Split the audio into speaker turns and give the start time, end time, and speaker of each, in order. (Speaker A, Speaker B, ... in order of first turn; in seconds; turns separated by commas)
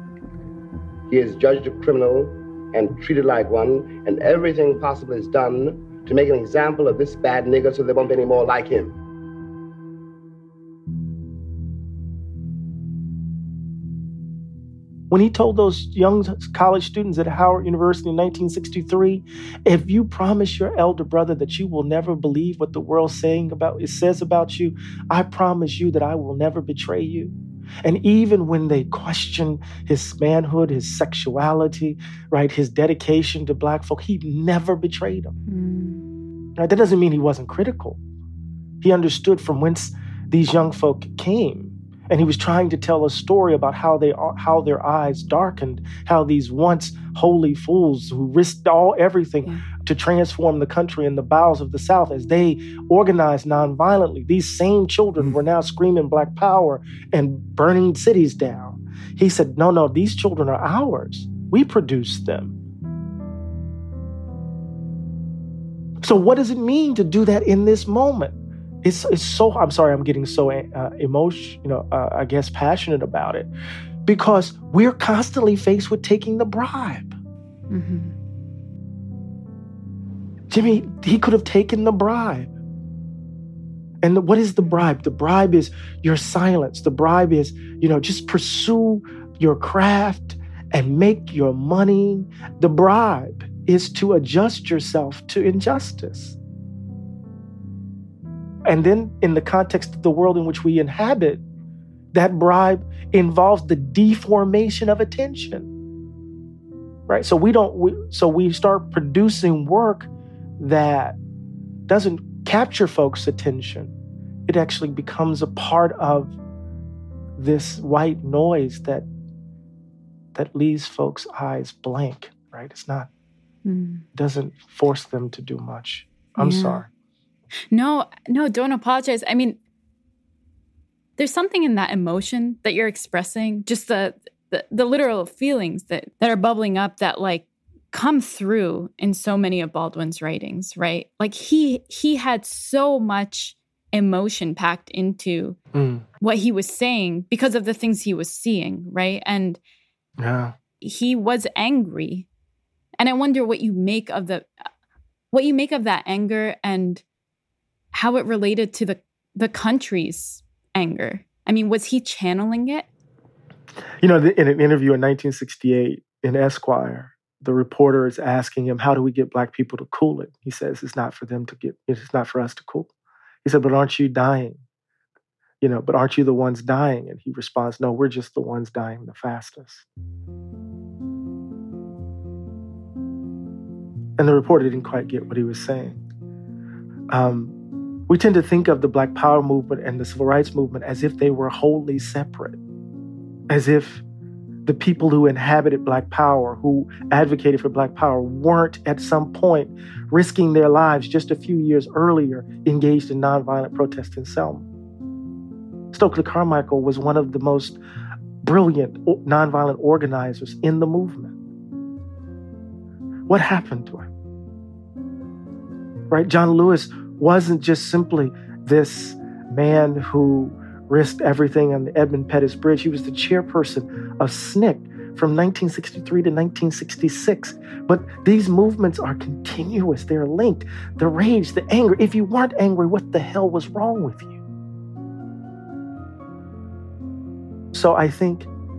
Speaker A: 1.1-8.9, Speaker B: 15.1-35.3, Speaker C: 35.5-36.0, Speaker B: 36.6-38.0, Speaker B: 38.8-62.6, Speaker B: 66.0-73.5, Speaker B: 74.0-77.1, Speaker C: 77.7-78.1, Speaker B: 80.5-82.5, Speaker B: 84.0-96.3, Speaker B: 98.7-101.4, Speaker B: 102.1-105.7, Speaker B: 107.1-111.2, Speaker B: 111.9-113.9, Speaker B: 114.5-116.3, Speaker B: 117.4-119.1, Speaker B: 120.3-123.1, Speaker C: 123.6-124.0, Speaker B: 124.1-126.9, Speaker C: 126.4-126.8, Speaker C: 127.7-129.6, Speaker C: 131.2-145.6, Speaker B: 145.7-146.1, Speaker C: 146.2-149.6, Speaker B: 150.2-150.6, Speaker C: 150.8-152.3, Speaker C: 153.0-154.5, Speaker C: 155.3-157.0, Speaker C: 157.9-162.8, Speaker B: 164.0-172.9, Speaker B: 173.4-174.6, Speaker B: 175.6-179.8, Speaker B: 184.2-186.0, Speaker B: 187.1-187.5, Speaker B: 188.1-192.6, Speaker B: 193.5-194.0, Speaker B: 194.6-204.7, Speaker B: 205.9-207.8, Speaker B: 208.4-211.3, Speaker B: 213.3-214.1, Speaker B: 216.1-234.4, Speaker B: 237.7-238.5